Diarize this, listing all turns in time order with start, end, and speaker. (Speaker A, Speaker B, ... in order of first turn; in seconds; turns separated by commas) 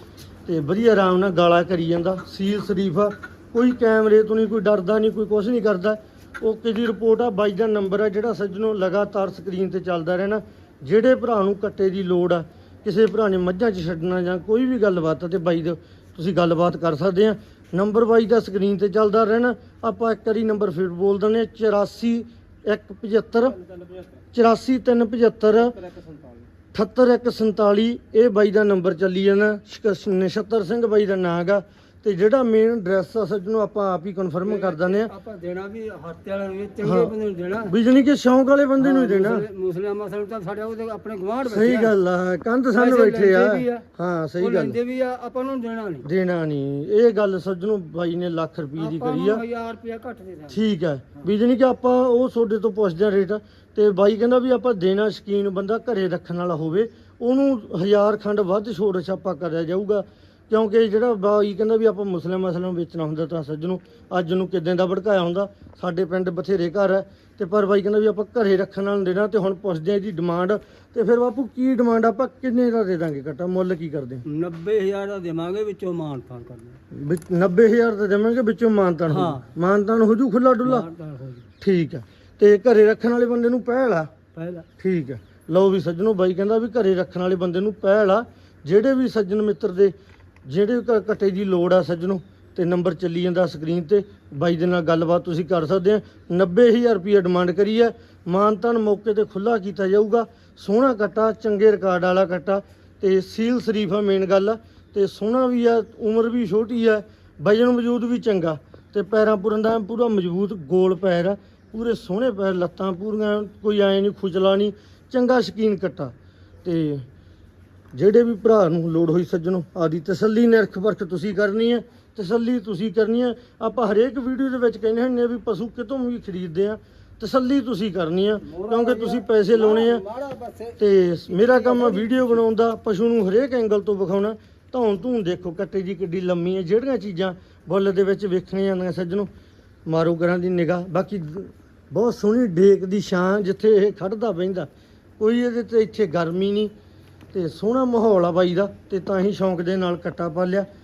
Speaker A: 0.5-23.6, Speaker B: 23.6-24.1, Speaker A: 24.3-25.8, Speaker B: 25.6-26.5, Speaker A: 26.7-35.1, Speaker B: 34.4-37.7, Speaker A: 36.8-39.4, Speaker B: 38.8-41.9, Speaker A: 41.4-44.8, Speaker B: 42.7-43.8, Speaker B: 44.4-46.1, Speaker A: 46.0-49.4, Speaker B: 48.8-50.6, Speaker A: 50.5-74.2, Speaker B: 74.2-76.8, Speaker A: 76.9-80.9, Speaker B: 79.1-79.5, Speaker B: 80.6-81.5, Speaker A: 81.6-84.1, Speaker B: 84.3-84.7, Speaker A: 84.8-89.9, Speaker A: 90.4-116.1, Speaker A: 116.6-117.0, Speaker A: 117.9-130.0, Speaker B: 128.4-132.4, Speaker A: 130.8-139.3, Speaker A: 139.9-146.7, Speaker A: 147.3-150.7